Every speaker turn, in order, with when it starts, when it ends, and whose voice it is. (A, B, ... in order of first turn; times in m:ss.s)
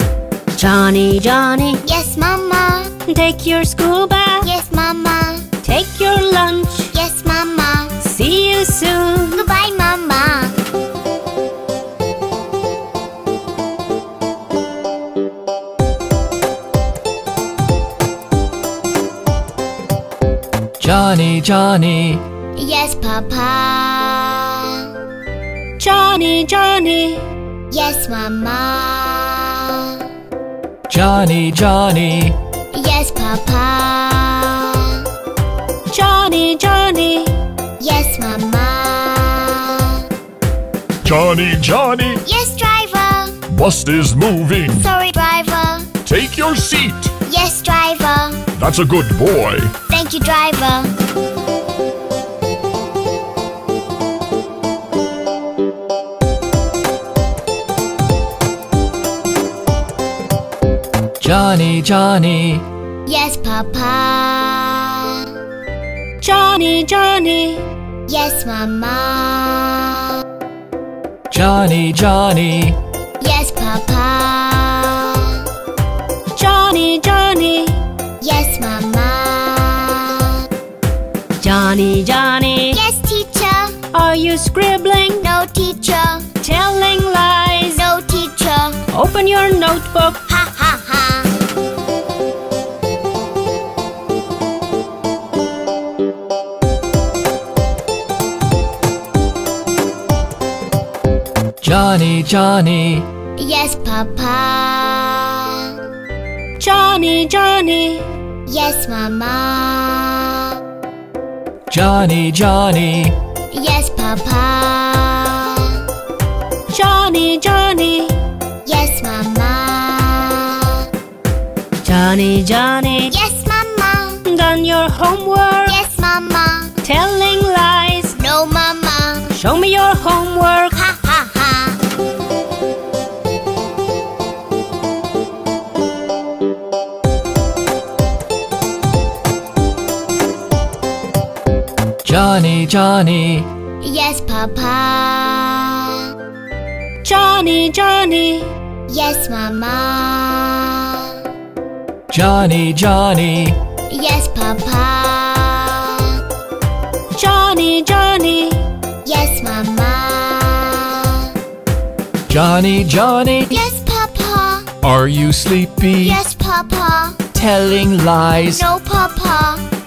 0:00.6-0:01.8 A
0:01.8-0:02.9 B
0:03.1-0:04.5 A
0:04.4-0:05.4 B
0:05.6-0:06.9 A
0:06.9-0:08.0 B
0:08.0-0:09.4 A
0:09.3-0:10.6 B
0:20.8-0:22.2 C
0:22.6-0:24.9 B
0:25.8-0:27.2 A
0:27.7-0:29.9 B
0:30.9-0:32.4 C
0:32.7-0:35.0 B
0:35.9-0:37.4 A
0:37.8-0:40.0 B
0:41.0-0:42.2 D
0:42.2-0:43.4 B
0:43.5-0:44.9 D
0:44.7-0:45.9 B
0:46.0-0:47.1 D
0:47.2-0:48.4 B
0:48.6-0:49.7 D
0:49.9-0:50.9 B
1:01.2-1:02.6 C
1:03.0-1:05.3 B
1:06.2-1:07.7 A
1:08.1-1:10.1 B
1:11.3-1:12.8 C
1:13.2-1:15.4 B
1:16.3-1:17.8 A
1:18.2-1:20.4 B
1:21.4-1:22.8 A
1:22.7-1:23.8 B
1:23.9-1:25.2 A
1:25.2-1:26.3 B
1:26.4-1:27.8 A
1:27.7-1:28.8 B
1:28.9-1:30.2 A
1:30.3-1:31.3 B
1:41.6-1:43.1 C
1:43.4-1:45.7 B
1:46.6-1:48.1 A
1:48.5-1:50.4 B
1:51.7-1:53.2 C
1:53.5-1:55.8 B
1:56.7-1:58.2 A
1:58.6-2:00.8 B
2:01.8-2:03.1 A
2:03.1-2:04.2 B
2:04.2-2:05.8 A
2:05.6-2:06.8 B
2:06.8-2:08.1 A
2:08.1-2:09.3 B
2:09.3-2:10.7 A
2:10.7-2:11.8 B
2:22.0-2:23.5 C
2:23.8-2:26.1 B
2:27.0-2:28.5 A
2:28.9-2:31.1 B
2:32.1-2:33.6 C
2:33.9-2:36.2 B
2:37.1-2:38.6 A
2:39.0-2:41.3 B
2:42.3-2:43.6 C
2:43.5-2:44.7 B
2:44.8-2:46.2 C
2:46.0-2:47.2 B
2:47.3-2:48.6 C
2:48.5-2:49.6 B